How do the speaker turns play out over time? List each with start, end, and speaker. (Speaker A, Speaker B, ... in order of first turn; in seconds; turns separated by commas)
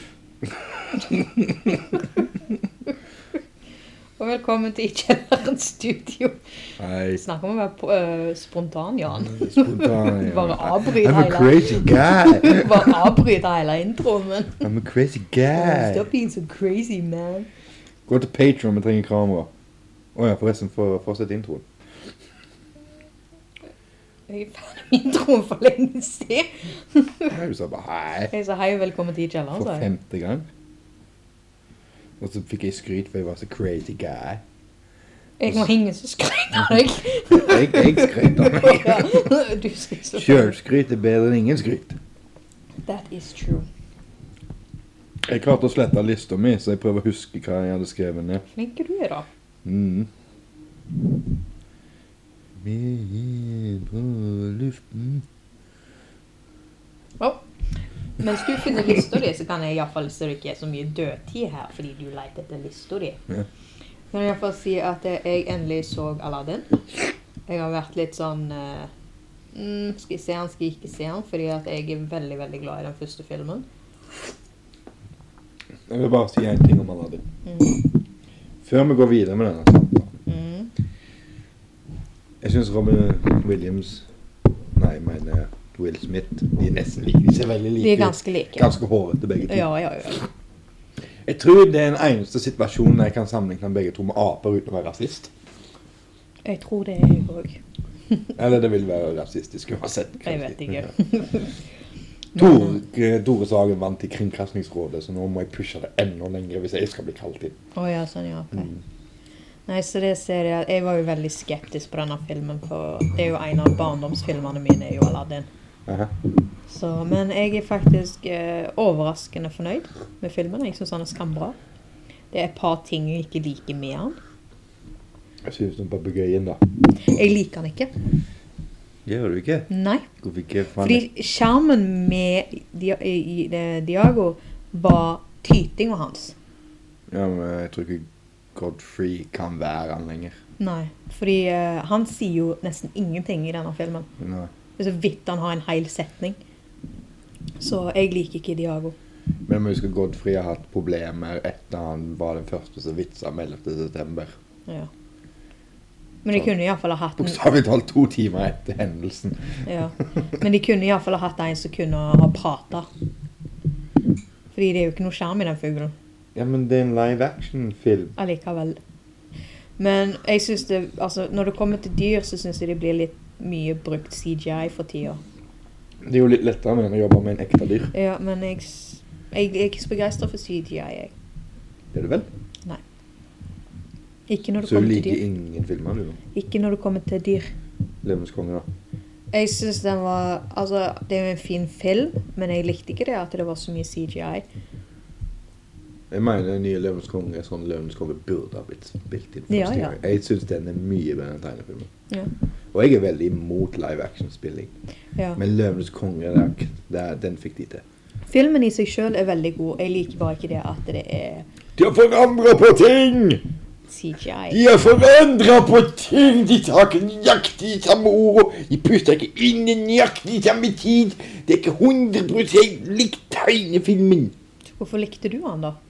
Speaker A: 0.6-2.0, Speaker B: 4.2-6.4, Speaker A: 6.8-7.2, Speaker B: 7.1-14.6, Speaker A: 9.2-13.0, Speaker A: 14.6-16.1, Speaker B: 15.5-17.5, Speaker A: 18.1-19.5, Speaker A: 20.1-21.6, Speaker B: 24.3-27.3, Speaker A: 27.3-28.3, Speaker B: 28.3-29.9, Speaker A: 29.5-30.5, Speaker A: 32.2-34.4, Speaker B: 35.4-40.6, Speaker A: 37.3-39.3, Speaker A: 40.1-42.0, Speaker B: 42.9-43.6, Speaker A: 45.3-48.4, Speaker B: 48.5-49.2, Speaker A: 49.6-50.1, Speaker A: 52.6-55.2, Speaker B: 58.2-63.2, Speaker B: 64.1-66.7, Speaker B: 67.5-68.9, Speaker B: 69.5-73.7, Speaker A: 75.9-77.2, Speaker B: 77.5-77.7, Speaker A: 78.6-80.2, Speaker B: 80.3-80.7, Speaker A: 82.4-84.0, Speaker A: 84.7-89.7, Speaker B: 87.8-88.7, Speaker B: 89.5-90.2, Speaker A: 91.2-95.3, Speaker B: 96.4-97.6, Speaker A: 98.3-100.9, Speaker B: 100.2-101.5, Speaker B: 102.3-102.8, Speaker A: 102.3-107.6, Speaker B: 107.7-108.7, Speaker B: 109.7-115.5, Speaker A: 115.9-116.1, Speaker B: 116.7-121.5, Speaker B: 122.3-124.2, Speaker A: 125.4-126.6, Speaker B: 127.0-127.9, Speaker A: 129.1-129.7, Speaker B: 129.7-130.1, Speaker A: 130.2-131.0, Speaker B: 130.8-136.3, Speaker A: 137.1-140.4, Speaker B: 140.6-144.1, Speaker A: 144.2-144.5, Speaker B: 144.8-146.4, Speaker B: 147.6-148.9, Speaker A: 149.5-154.3, Speaker B: 156.2-157.4, Speaker A: 157.2-159.6, Speaker B: 159.6-162.9, Speaker B: 164.5-165.9, Speaker A: 166.3-168.2, Speaker B: 168.2-168.8, Speaker B: 169.8-175.2, Speaker A: 176.0-177.9, Speaker B: 177.9-181.1, Speaker A: 181.9-182.3, Speaker B: 184.3-185.2, Speaker A: 184.6-186.2, Speaker B: 186.3-187.5, Speaker A: 188.0-188.7, Speaker B: 189.3-194.4, Speaker A: 196.1-201.9, Speaker B: 199.5-199.9, Speaker A: 202.7-204.7, Speaker A: 205.4-207.8, Speaker B: 208.3-211.5, Speaker A: 211.8-213.4, Speaker B: 213.9-214.6, Speaker A: 214.5-224.3, Speaker B: 224.8-225.8